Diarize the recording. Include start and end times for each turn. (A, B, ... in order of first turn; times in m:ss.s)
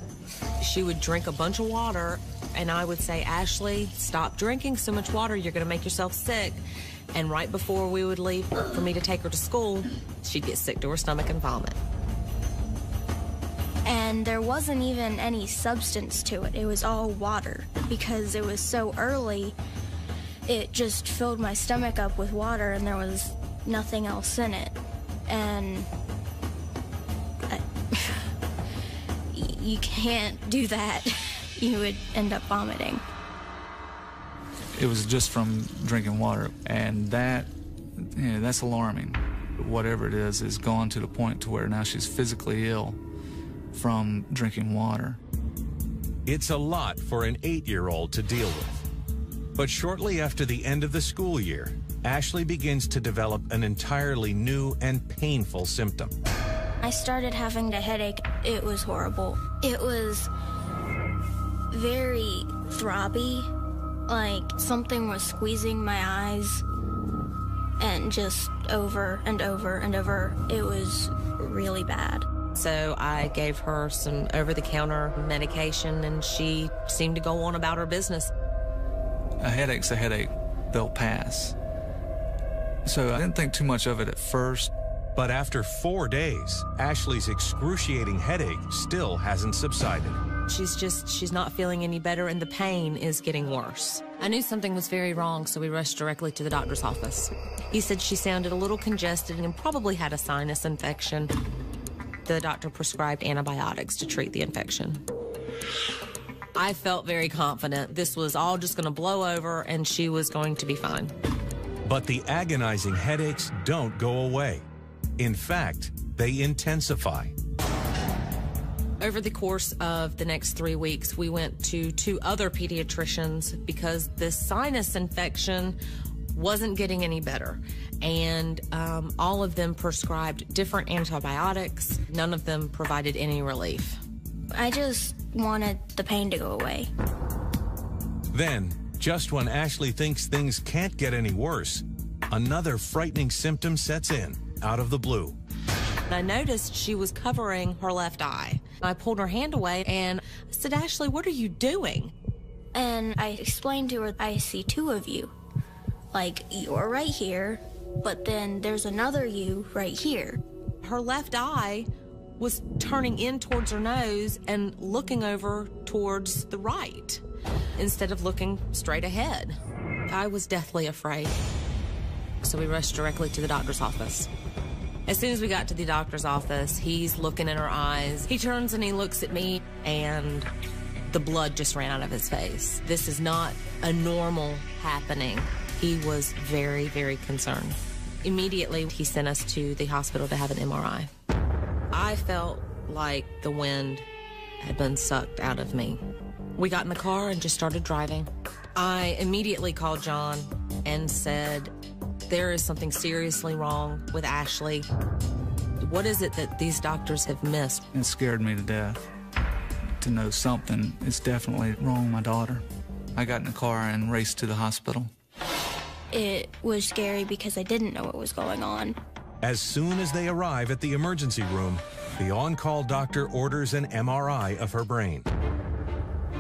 0:00.6-0:11.8 A
0:13.8-0:19.6 B
0:20.5-0:25.9 B
0:27.5-0:28.3 B
0:29.3-0:33.0 B
0:34.8-0:43.0 C
0:43.7-0:45.2 C
0:46.3-0:48.9 D
0:49.6-0:56.1 D
0:56.8-1:00.3 B
1:01.7-1:03.5 B
1:04.1-1:06.7 B
1:07.8-1:12.3 B
1:12.5-1:18.3 A
1:19.4-1:21.6 C
1:22.8-1:24.7 C
1:25.2-1:30.2 D
1:30.5-1:41.3 A
1:42.2-1:45.0 A
1:46.6-1:51.1 A
1:51.8-1:54.7 D
1:55.2-1:57.3 D
1:59.0-2:05.8 A
2:06.3-2:14.0 A
2:14.5-2:16.9 B
2:18.3-2:25.4 D
2:26.1-2:32.1 A
2:32.7-2:35.3 B
2:36.1-2:40.4 B
2:40.8-2:47.2 A
2:47.8-2:51.4 A
2:52.4-2:54.3 A
2:55.1-3:00.5 A
3:01.1-3:11.1 A
3:11.9-3:14.1 A
3:14.6-3:16.0 A
3:16.6-3:21.7 A
3:22.3-3:24.9 A
3:25.8-3:27.9 A
3:27.9-3:29.0 C
3:30.0-3:32.6 C
3:33.2-3:35.1 C
3:36.1-3:39.0 B
3:39.4-3:45.3 D